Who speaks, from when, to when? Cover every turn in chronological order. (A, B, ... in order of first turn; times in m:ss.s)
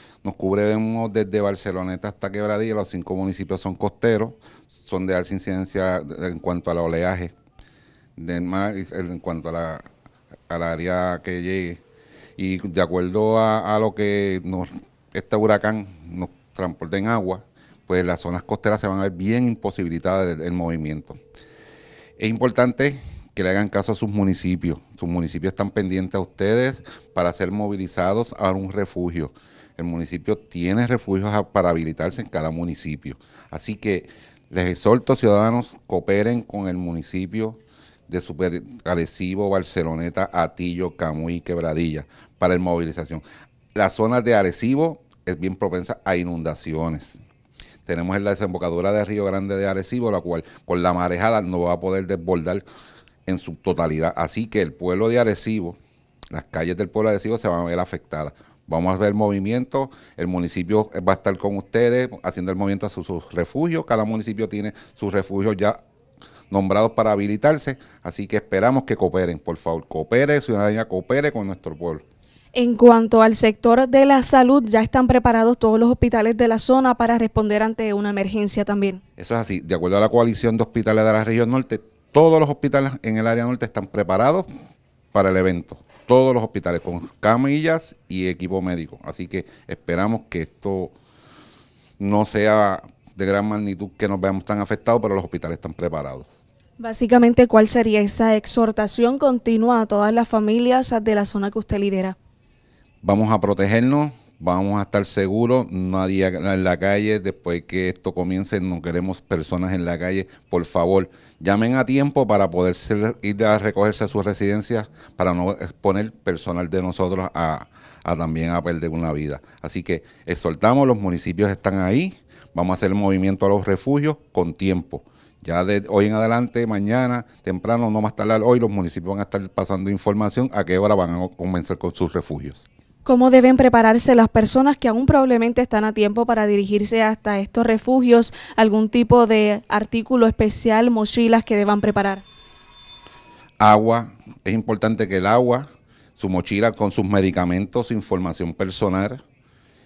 0:00.2-0:07.3 A
0:08.2-0:09.8 A
0:10.5-0:11.8 A
0:12.4-0:21.2 A
0:22.2-0:47.2 A
0:47.9-0:52.6 A
0:53.3-0:55.8 A
0:56.3-1:05.8 A
1:06.5-1:12.0 A
1:12.6-1:19.0 B
1:19.2-1:24.5 A
1:25.1-1:30.9 A
1:32.0-1:36.3 A
1:36.8-1:42.2 B
1:43.0-2:12.6 A
2:13.0-2:22.2 B
2:23.6-2:29.2 A